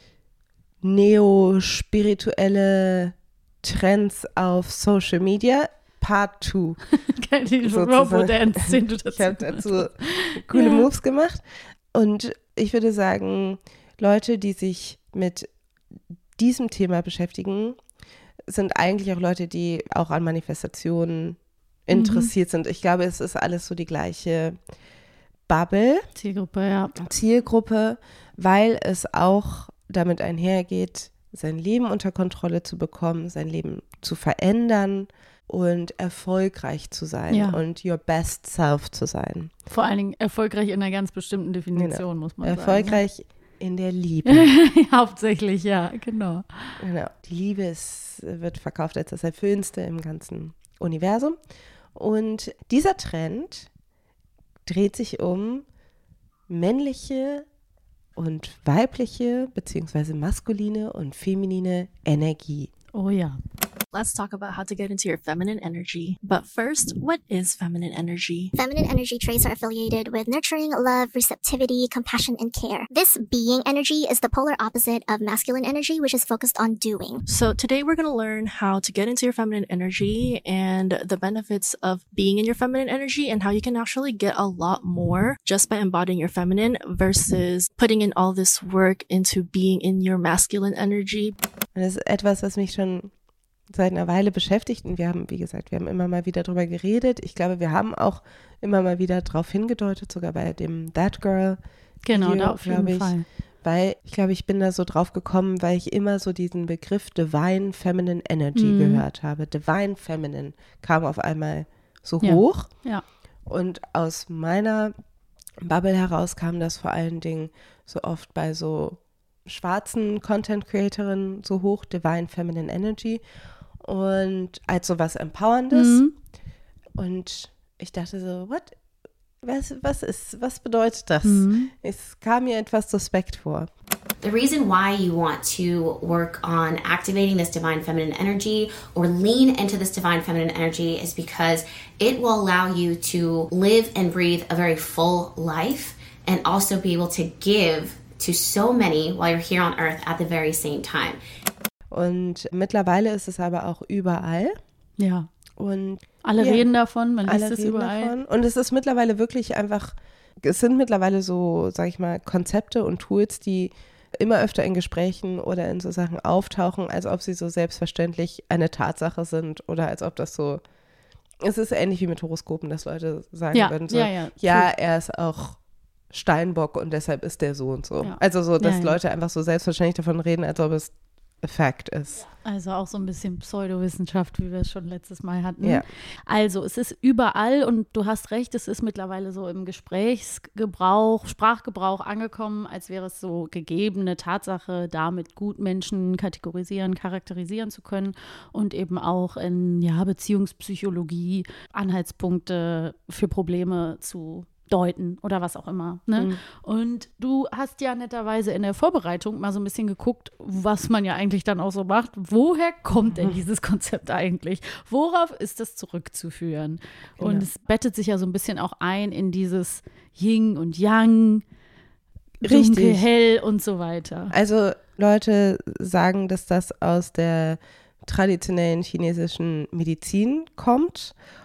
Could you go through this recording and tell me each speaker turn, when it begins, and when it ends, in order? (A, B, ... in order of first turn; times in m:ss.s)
0:00.8-0:06.9 A
0:07.1-0:10.8 B
0:07.6-0:11.4 A
0:11.9-0:15.5 A
0:16.4-0:17.8 A
0:18.5-0:24.6 A
0:21.9-0:22.3 B
0:25.5-0:26.1 A
0:26.2-0:27.0 B
0:27.0-0:39.5 A
0:37.3-0:37.6 B
0:39.7-0:43.0 B
0:41.8-0:44.5 A
0:44.3-0:46.8 B
0:46.8-0:51.4 A
0:52.0-0:53.7 A
0:54.7-0:55.6 A
0:56.5-0:57.4 A
0:58.2-1:02.7 A
1:02.9-1:03.4 B
1:03.9-1:08.5 C
1:08.6-1:17.2 D
1:17.3-1:31.4 C
1:31.8-1:33.1 A
1:33.7-1:41.6 A
1:42.0-1:43.2 B
1:42.1-1:52.7 A
1:48.6-1:49.0 B
1:52.2-1:53.0 B
1:53.5-1:54.9 A
1:55.6-2:03.2 A
2:03.8-2:06.0 A
2:05.7-2:06.1 B
2:07.0-2:08.8 A
2:09.4-2:13.7 A
2:11.2-2:11.7 B
2:14.2-2:31.2 E
2:31.9-2:34.6 A
2:35.0-2:35.3 B
2:35.6-2:36.7 A
2:36.2-2:38.1 B
2:37.3-2:50.6 A
2:51.4-2:55.6 A
2:53.5-2:54.7 B
2:56.1-3:02.2 A
2:58.0-2:59.0 B
3:02.2-3:41.4 B
3:33.1-3:33.4 A
3:37.2-3:37.5 A
3:42.4-3:43.0 A
3:42.4-3:44.3 B
3:44.3-3:51.1 A